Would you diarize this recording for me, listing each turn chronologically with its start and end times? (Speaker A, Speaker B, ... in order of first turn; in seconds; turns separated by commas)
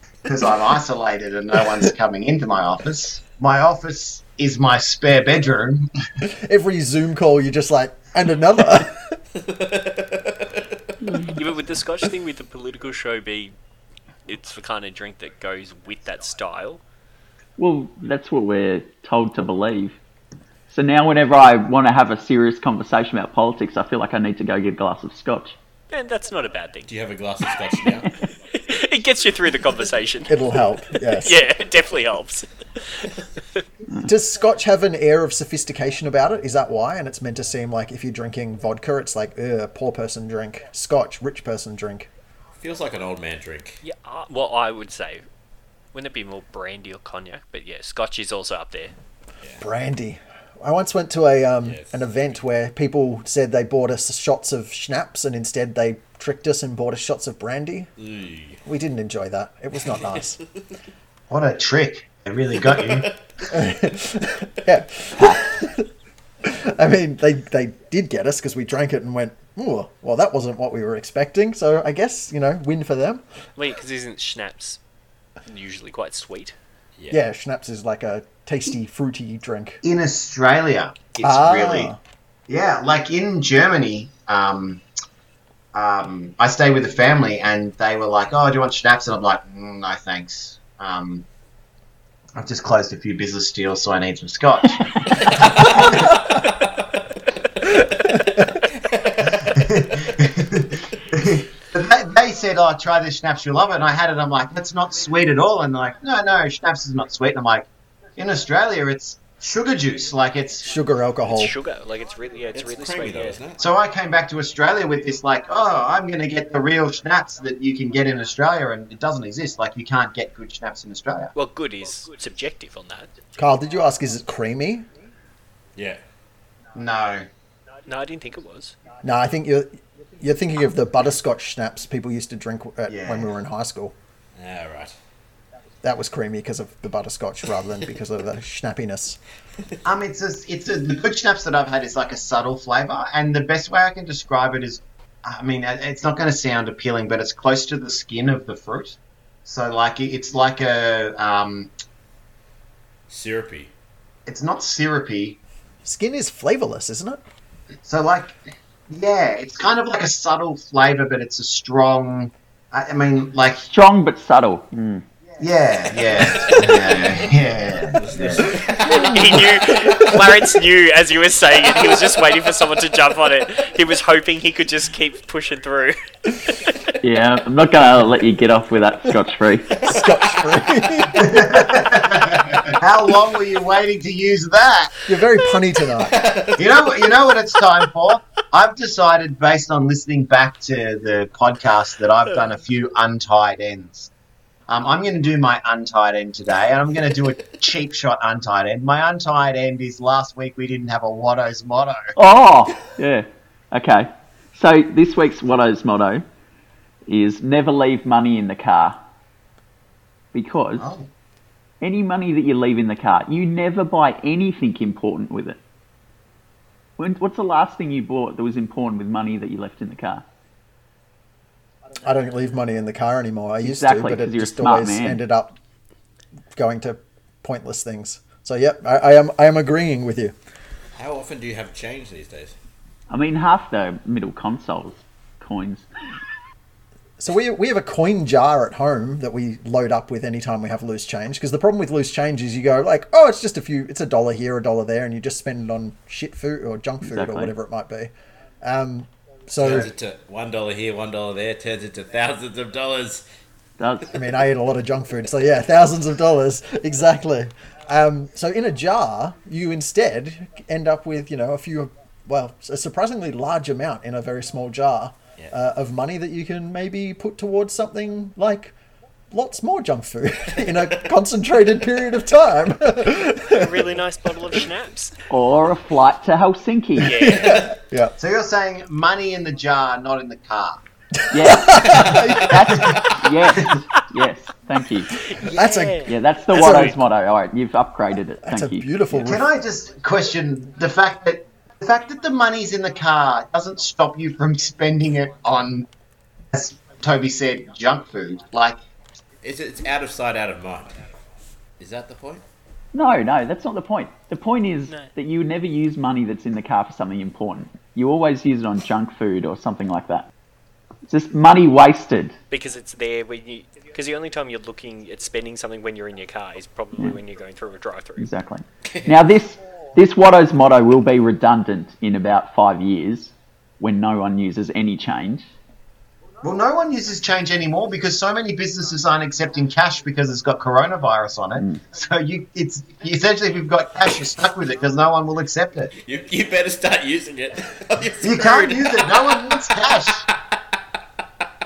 Speaker A: 0.2-5.9, Speaker B: 6.2-9.2, Speaker C: 9.3-10.6, Speaker D: 11.0-11.3, Speaker E: 11.2-13.5, Speaker E: 14.3-16.8, Speaker D: 17.6-19.9, Speaker D: 20.7-25.6, Speaker E: 25.9-26.9, Speaker C: 26.9-28.1, Speaker E: 28.5-30.4, Speaker B: 30.3-31.4, Speaker E: 31.1-32.5, Speaker E: 33.0-33.6, Speaker B: 34.0-42.1, Speaker C: 42.6-43.8, Speaker E: 43.8-45.2, Speaker E: 45.9-48.9, Speaker B: 49.6-57.9, Speaker C: 58.0-58.6, Speaker B: 58.6-60.4, Speaker A: 61.3-63.1, Speaker C: 62.6-63.1, Speaker B: 63.5-65.9, Speaker B: 66.4-73.2, Speaker E: 73.5-74.8, Speaker E: 75.5-76.5, Speaker B: 77.1-79.8, Speaker A: 79.8-81.9, Speaker B: 81.2-82.0, Speaker A: 82.5-84.8, Speaker A: 85.7-91.2, Speaker A: 92.4-96.2, Speaker C: 95.2-96.8, Speaker B: 97.9-98.4, Speaker C: 98.7-99.5, Speaker A: 99.3-110.7, Speaker B: 110.6-111.5, Speaker E: 111.2-113.4, Speaker C: 112.5-113.6, Speaker A: 113.6-121.3, Speaker E: 121.3-123.1, Speaker B: 123.4-124.8, Speaker C: 125.8-126.0, Speaker A: 126.7-127.3, Speaker E: 127.9-128.7, Speaker B: 129.0-133.9, Speaker A: 132.9-133.3, Speaker C: 134.3-134.9, Speaker B: 135.8-139.2, Speaker A: 139.8-151.7, Speaker C: 153.1-153.7, Speaker A: 154.3-155.4, Speaker B: 155.8-157.2, Speaker A: 157.8-163.7, Speaker D: 163.7-165.0, Speaker A: 165.4-168.6, Speaker C: 166.0-167.3, Speaker C: 167.9-170.2, Speaker E: 168.8-176.9, Speaker D: 177.0-179.8, Speaker C: 179.8-180.2, Speaker B: 179.8-181.8, Speaker A: 181.1-185.0, Speaker B: 185.1-186.2, Speaker C: 186.1-186.8, Speaker A: 186.6-194.1, Speaker A: 194.7-202.1, Speaker D: 202.2-206.2, Speaker D: 207.1-209.0, Speaker D: 210.3-210.8, Speaker A: 210.8-211.1, Speaker D: 211.8-215.6, Speaker D: 217.0-220.2, Speaker B: 222.0-225.6, Speaker D: 223.6-225.2, Speaker B: 226.5-230.3, Speaker C: 231.0-232.5, Speaker D: 233.1-235.8, Speaker B: 237.2-249.9, Speaker D: 247.0-247.5, Speaker C: 249.6-253.2, Speaker D: 253.8-254.1, Speaker B: 254.1-268.7, Speaker B: 269.3-273.9, Speaker E: 273.5-275.1, Speaker D: 275.3-277.3, Speaker E: 277.0-277.6, Speaker B: 277.1-278.1, Speaker A: 278.2-280.8, Speaker B: 281.2-283.0, Speaker D: 281.3-285.2, Speaker C: 281.9-282.3, Speaker E: 285.2-286.9, Speaker B: 285.4-286.9, Speaker D: 286.1-288.9, Speaker B: 288.4-289.5, Speaker A: 289.1-295.9, Speaker A: 296.5-298.8, Speaker C: 299.4-301.0, Speaker C: 301.8-302.4, Speaker D: 302.9-310.3, Speaker D: 311.1-312.4, Speaker E: 312.5-318.3, Speaker D: 318.2-325.4, Speaker C: 318.9-319.2, Speaker A: 326.4-335.9, Speaker D: 331.6-331.8, Speaker C: 336.0-339.6, Speaker A: 338.2-340.3